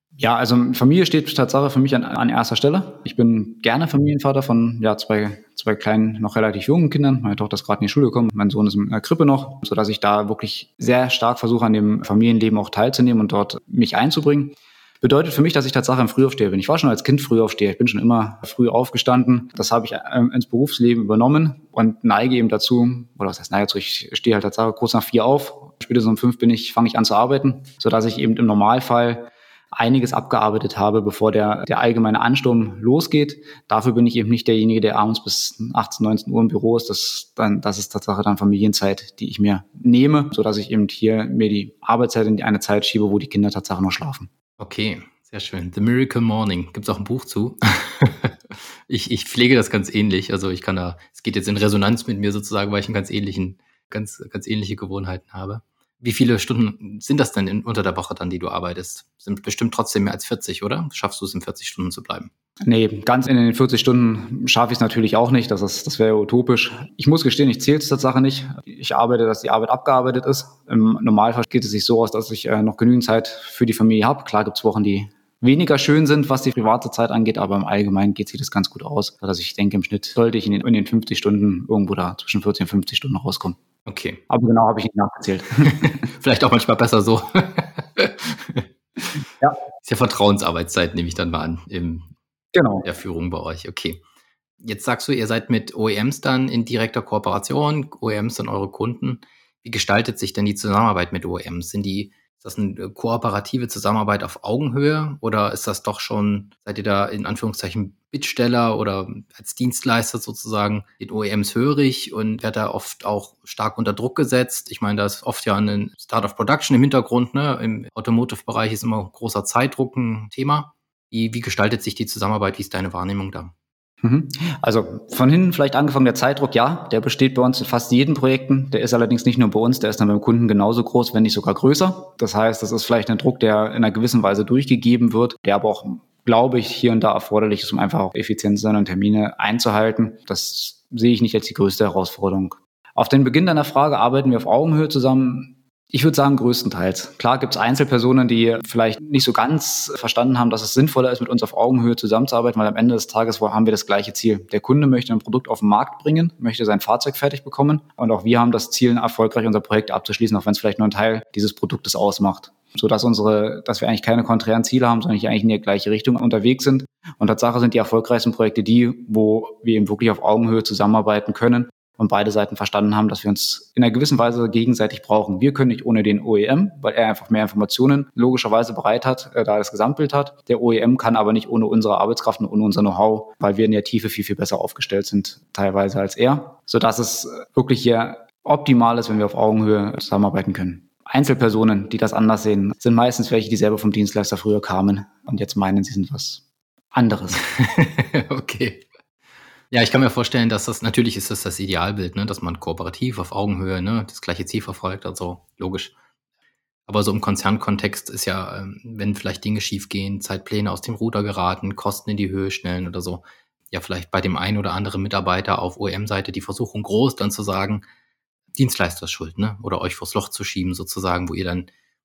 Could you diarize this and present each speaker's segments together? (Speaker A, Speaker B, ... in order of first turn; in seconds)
Speaker A: 0.2-44.3, 62.6-83.6, 84.3-86.0, 92.5-92.9, 124.0-197.4
Speaker B: 44.6-62.3, 83.9-84.2, 85.6-88.7, 89.8-92.1, 92.8-94.0, 94.6-123.5, 197.4-198.9, 199.7-205.9, 206.9-217.8, 218.6-221.7